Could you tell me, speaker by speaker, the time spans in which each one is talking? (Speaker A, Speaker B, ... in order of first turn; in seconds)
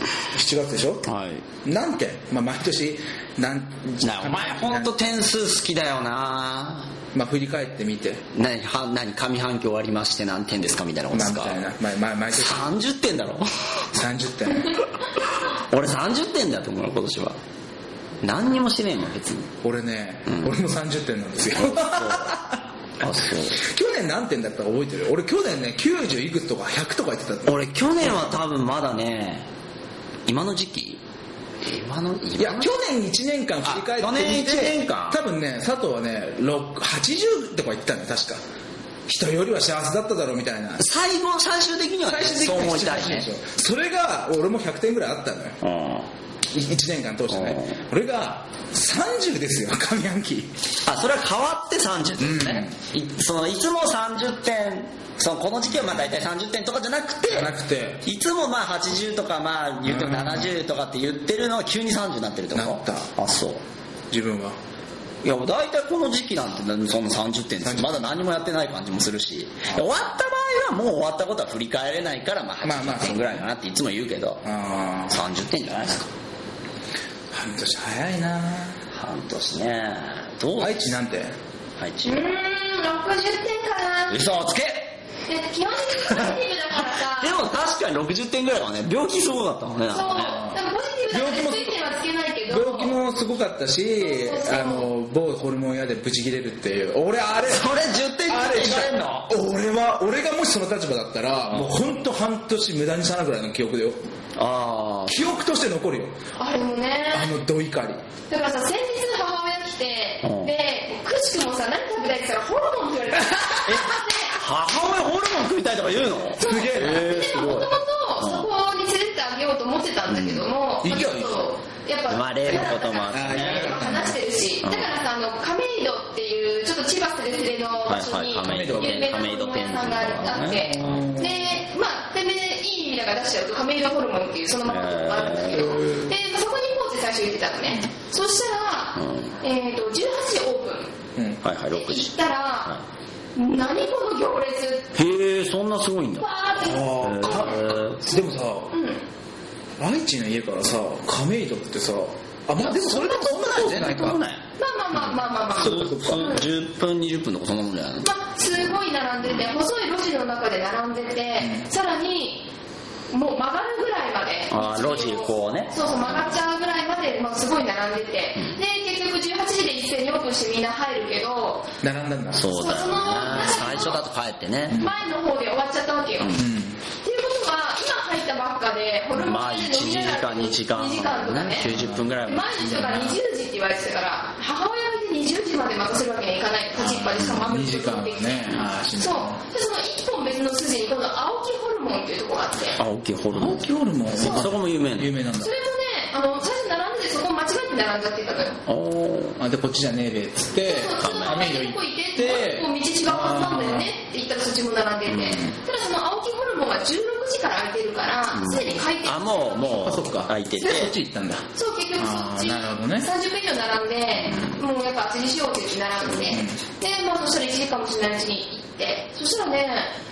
Speaker A: 0.3-1.1, 1.6-5.2, 7.1-8.2, 11.1-12.7, 13.9-14.8, 19.6-22.6, 23.6-28.2, 32.4-38.4, 39.1-40.8, 42.1-45.6, 46.5-50.5, 52.2-52.8, 57.3-58.0, 59.9-60.5, 62.5-63.1, 64.1-64.6, 67.6-68.1, 72.6-73.5, 74.4-75.2, 77.3-78.8, 80.6-81.3, 90.2-90.6, 91.1-91.8, 92.5-97.7, 98.3-104.1, 105.1-106.2, 107.1-108.0, 116.4-117.2, 120.8-121.3, 122.5-124.2, 128.4-129.1, 130.7-131.6, 146.6-148.7, 149.8-154.2, 155.6-156.4, 161.4-161.7, 171.8-172.5, 174.7-174.9, 176.3-176.8, 181.7-182.0, 186.8-189.4, 193.3-195.5, 199.4-203.9, 209.8-213.1, 216.3-216.6
Speaker B: 1.1-1.5, 4.0-6.9, 8.3-11.6, 12.3-13.9, 15.2-17.4, 18.2-19.5, 21.6-22.4, 23.0-23.6, 27.4-29.5, 30.3-31.0, 31.6-32.8, 33.6-35.2, 40.8-43.3, 45.6-46.1, 47.3-47.8, 50.9-63.6, 65.2-74.4, 75.1-76.1, 78.9-80.9, 81.8-82.3, 84.1-85.0, 86.1-90.5, 97.4-99.3, 104.3-105.3, 110.2-110.5, 113.7-118.5, 120.1-120.5, 122.1-123.9, 124.6-125.0, 127.9-131.1, 134.7-136.0, 139.0-139.4, 141.4-142.1, 145.0-146.3, 147.0-148.1, 152.9-154.4, 155.0-158.1, 164.5-166.4, 172.3-174.8, 179.1-183.2, 192.8-195.1, 198.7-199.4, 201.0-201.5, 205.1-205.5, 208.3-210.9, 214.2-214.6
Speaker C: 82.0-84.2, 85.3-87.4, 89.9-93.0, 94.0-94.9, 106.4-107.3, 108.3-114.4, 116.4-140.9, 141.7-142.8, 143.4-144.9, 146.2-147.5, 148.7-149.0, 152.6-153.3, 154.6-156.5, 158.0-162.5, 163.1-171.7, 172.4-174.0, 174.7-176.4, 177.0-181.7, 182.3-192.8, 194.2-194.5, 195.4-198.6, 200.6-209.8, 211.6-219.9